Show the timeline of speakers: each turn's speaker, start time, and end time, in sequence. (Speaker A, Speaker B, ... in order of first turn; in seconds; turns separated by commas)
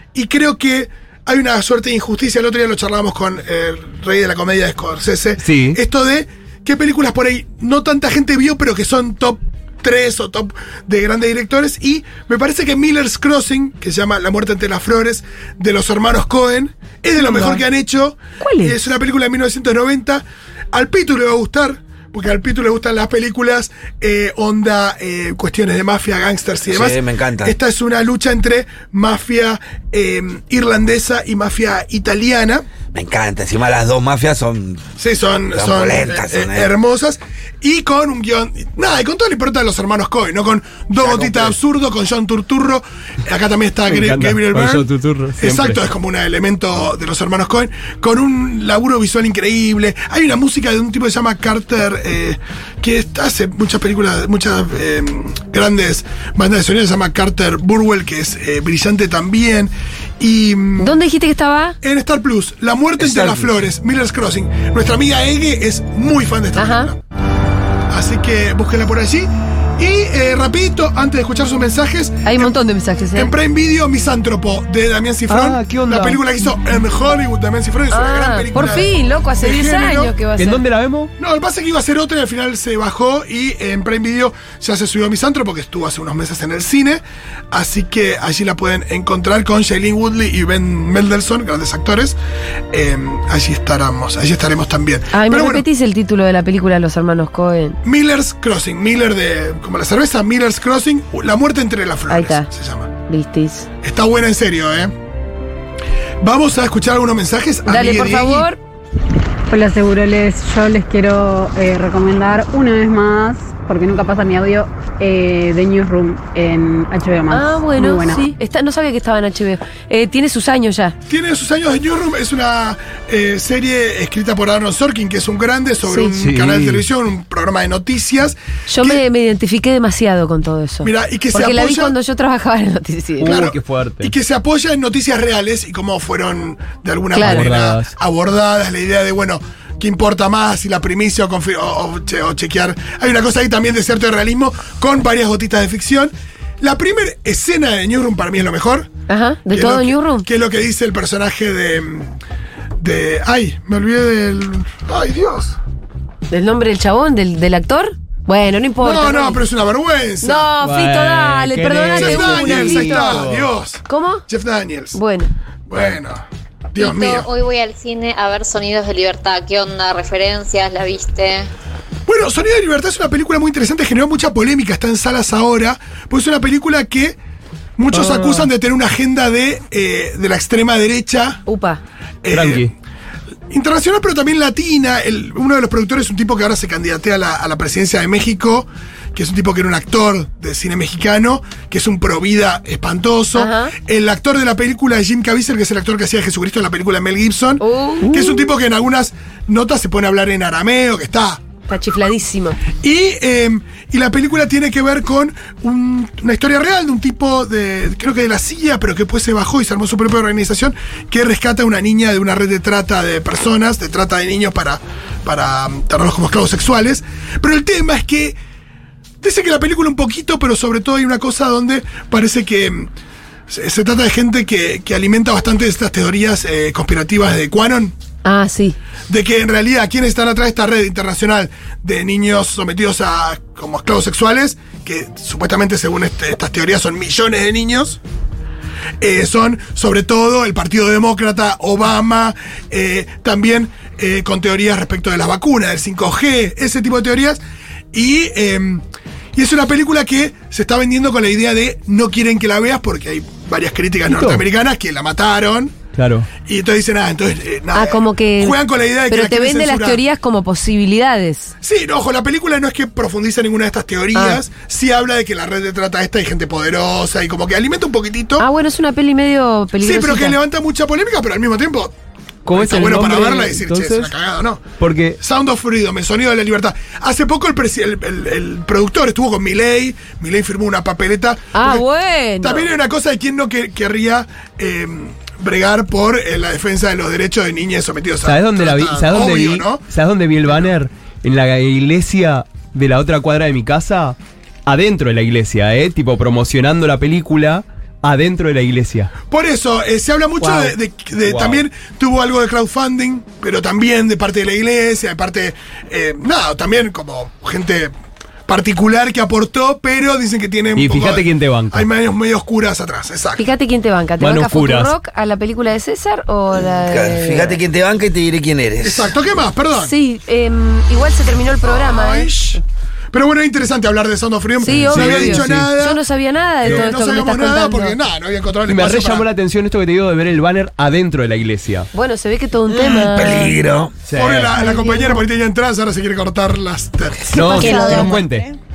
Speaker A: 0.1-32.6, Speaker B: 5.4-5.8, Speaker C: 18.4-18.8, Speaker D: 26.7-27.6, Speaker D: 32.9-34.8, Speaker A: 35.0-44.9, Speaker D: 35.5-36.7, Speaker D: 41.0-41.6, Speaker B: 43.9-45.8, Speaker A: 45.4-60.9, Speaker C: 60.8-61.8, Speaker A: 61.8-67.0, Speaker D: 63.0-63.5, Speaker C: 66.5-66.9, Speaker A: 67.9-72.5, Speaker C: 72.2-73.3, Speaker A: 73.1-80.1, Speaker B: 75.3-76.2, Speaker C: 77.9-80.6, Speaker B: 80.4-81.1, Speaker A: 81.2-92.2, Speaker A: 92.7-95.6, Speaker C: 95.1-97.8, Speaker A: 97.8-102.9, Speaker C: 102.1-102.5, Speaker C: 103.1-103.7, Speaker A: 103.8-104.9, Speaker A: 106.2-108.5, Speaker C: 107.7-108.6, Speaker E: 109.5-118.3, Speaker C: 117.3-120.9, Speaker A: 121.1-129.0, Speaker C: 125.8-126.1, Speaker B: 126.1-126.8, Speaker C: 128.7-133.4, Speaker A: 130.8-131.9, Speaker B: 133.2-134.1, Speaker A: 133.2-148.9, Speaker C: 137.1-137.4, Speaker B: 137.2-137.9, Speaker C: 149.1-150.3, Speaker A: 149.5-152.1, Speaker A: 152.8-155.6, Speaker C: 156.3-159.4, Speaker A: 158.8-160.5, Speaker C: 160.2-163.2, Speaker B: 160.6-163.5, Speaker A: 161.9-165.0, Speaker C: 163.8-164.2, Speaker C: 164.9-165.3, Speaker A: 165.7-167.3, Speaker F: 166.8-171.5, Speaker A: 172.1-177.2, Speaker A: 177.8-181.4, Speaker B: 177.9-178.5, Speaker C: 181.4-181.8, Speaker A: 182.2-182.7, Speaker B: 182.3-182.7, Speaker A: 183.5-201.4, Speaker C: 193.3-193.7, Speaker C: 197.6-198.5, Speaker C: 201.7-202.6, Speaker A: 202.8-218.4, Speaker A: 219.2-222.9, Speaker A: 223.5-227.9, Speaker C: 228.2-228.8, Speaker A: 229.1-238.0, Speaker A: 239.0-247.4, Speaker A: 247.9-248.8, Speaker A: 249.3-255.7, Speaker B: 254.1-254.4, Speaker B: 255.9-256.3, Speaker A: 256.4-260.0, Speaker C: 257.7-261.5, Speaker A: 261.6-268.4, Speaker C: 264.1-264.4, Speaker C: 268.4-270.4, Speaker A: 269.8-271.9, Speaker B: 272.4-274.1, Speaker A: 272.5-274.6, Speaker B: 274.8-275.2, Speaker A: 275.2-281.8, Speaker C: 281.5-282.7, Speaker A: 282.4-289.8, Speaker B: 288.2-299.1, Speaker A: 299.3-307.9, Speaker C: 300.4-300.7, Speaker B: 301.2-301.6, Speaker A: 308.5-313.4, Speaker B: 310.7-311.9, Speaker C: 313.4-317.6, Speaker B: 314.2-314.9, Speaker D: 316.5-319.2, Speaker A: 318.8-319.9, Speaker C: 319.8-322.6, Speaker A: 321.6-322.6, Speaker A: 323.1-326.0, Speaker C: 324.6-328.0, Speaker B: 324.6-325.7, Speaker A: 326.6-329.3, Speaker B: 326.6-326.9, Speaker B: 328.6-331.9, Speaker C: 331.9-333.6, Speaker D: 332.7-333.9, Speaker B: 334.1-334.6, Speaker A: 334.1-337.5, Speaker C: 334.5-335.2, Speaker B: 337.3-338.5, Speaker C: 337.3-338.2, Speaker E: 337.5-338.2